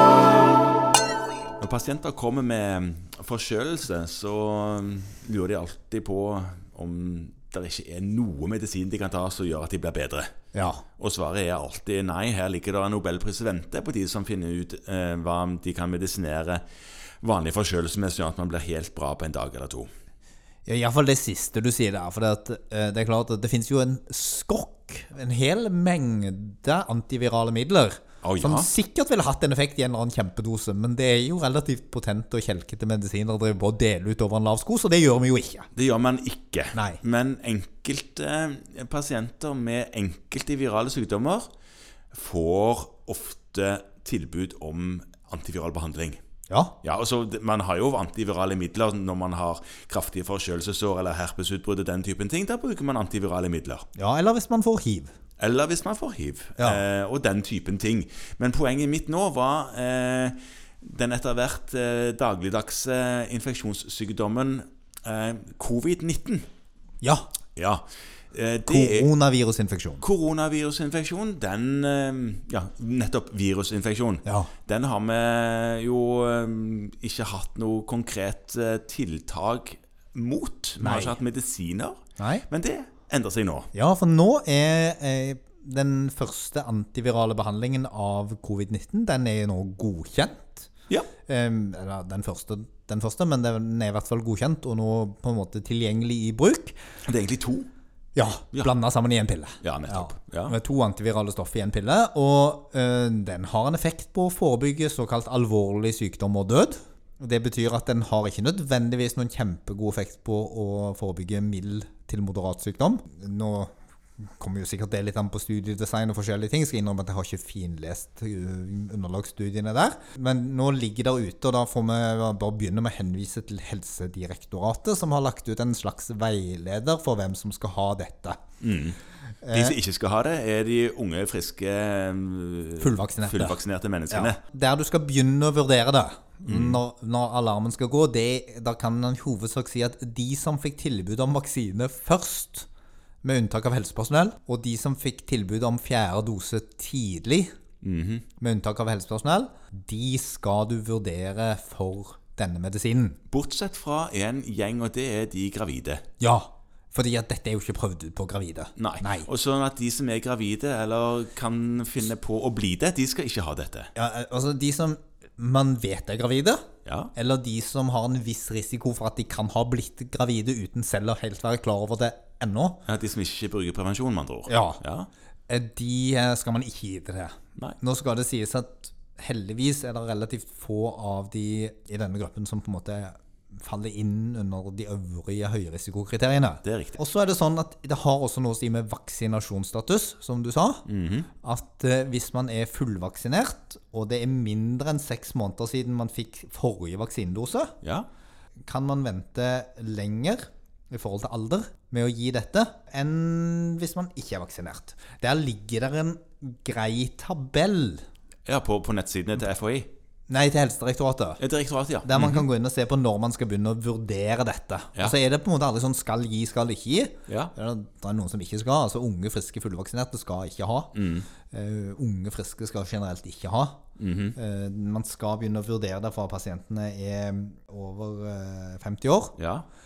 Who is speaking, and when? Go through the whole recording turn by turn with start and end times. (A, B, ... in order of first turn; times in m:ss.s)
0:01.6-0:10.3 A
0:10.5-0:10.8 B
0:11.0-0:16.6 A
0:17.2-0:19.9 A
0:20.7-0:35.7 B
0:28.2-0:28.7 A
0:35.8-0:41.5 A
0:36.8-0:37.0 B
0:42.1-0:46.2 A
0:46.5-0:46.8 B
0:46.8-0:53.9 A
0:54.0-0:55.1 B
0:55.4-1:06.5 A
1:07.0-1:07.3 B
1:07.6-1:09.1 A
1:08.7-1:10.0 B
1:10.0-1:23.7 A
1:14.3-1:14.5 B
1:20.8-1:21.2 B
1:22.2-1:22.5 B
1:23.7-1:30.7 B
1:31.3-1:36.8 B
1:37.0-1:37.7 A
1:38.2-1:53.7 B
1:39.6-1:40.6 A
1:54.4-2:08.4 B
2:08.6-2:09.0 A
2:09.4-2:09.8 B
2:09.5-2:14.4 A
2:12.8-2:13.6 B
2:14.1-2:22.7 B
2:16.5-2:16.8 A
2:23.2-2:27.5 B
2:27.8-2:28.3 A
2:28.4-2:33.2 B
2:33.3-2:36.0 A
2:36.2-2:39.3 B
2:38.8-2:43.9 A
2:44.0-2:52.8 B
2:46.9-2:47.1 A
2:52.9-2:55.1 A
2:54.5-2:54.8 B
2:55.5-3:10.8 B
3:06.6-3:07.0 A
3:10.9-3:11.3 A
3:11.4-3:17.8 B
3:17.8-3:18.1 A
3:18.7-3:28.0 B
3:28.5-3:29.9 A
3:30.3-3:31.4 B
3:31.4-3:32.5 A
3:32.0-3:40.9 B
3:37.3-3:37.5 A
3:40.9-3:41.3 A
3:41.5-3:43.8 B
3:44.0-3:44.4 A
3:44.4-3:49.4 B
3:49.4-3:49.7 A